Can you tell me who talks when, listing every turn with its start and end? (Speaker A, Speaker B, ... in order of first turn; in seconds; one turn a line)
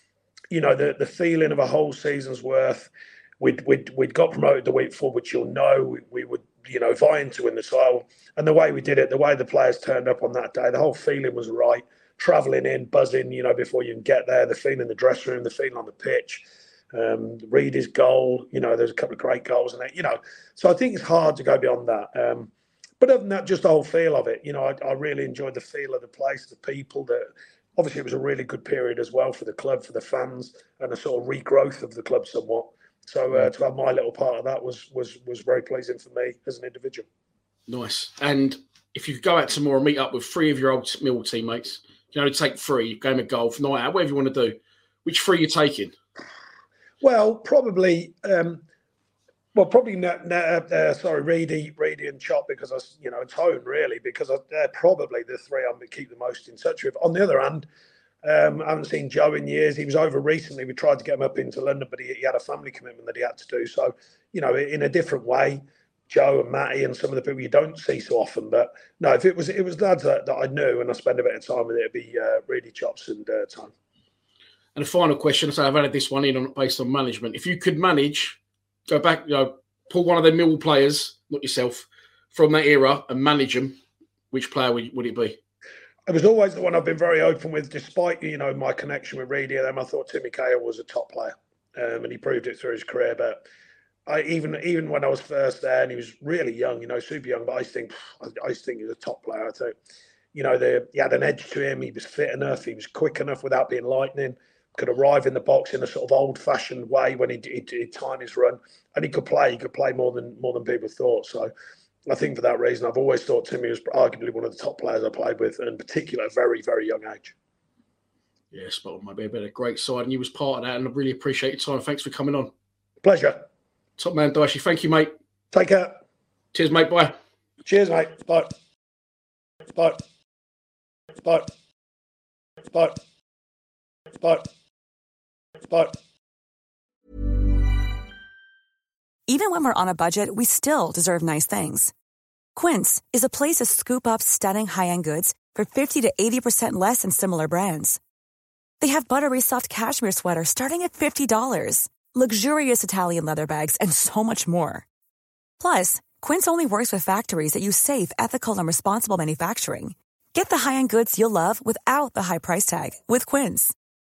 Speaker A: 0.5-37.1
Speaker B: 37.7-45.9
Speaker A: 47.0-48.6
Speaker A: 49.5-57.6
Speaker A: 58.2-73.7
Speaker B: 74.7-83.8
Speaker B: 84.3-85.4
Speaker A: 86.1-93.4
Speaker A: 94.1-99.7
Speaker A: 100.3-111.5
Speaker A: 112.1-117.3
Speaker B: 118.5-122.5
Speaker A: 123.0-123.5
Speaker B: 124.0-125.1
Speaker A: 125.5-126.0
Speaker B: 126.5-127.1
Speaker A: 127.7-128.5
Speaker A: 129.7-130.0
Speaker A: 131.2-131.5
Speaker A: 132.7-133.0
Speaker A: 134.2-134.5
Speaker A: 135.7-135.9
Speaker C: 139.3-141.9
Speaker C: 142.5-148.0
Speaker C: 148.8-154.8
Speaker C: 155.6-163.7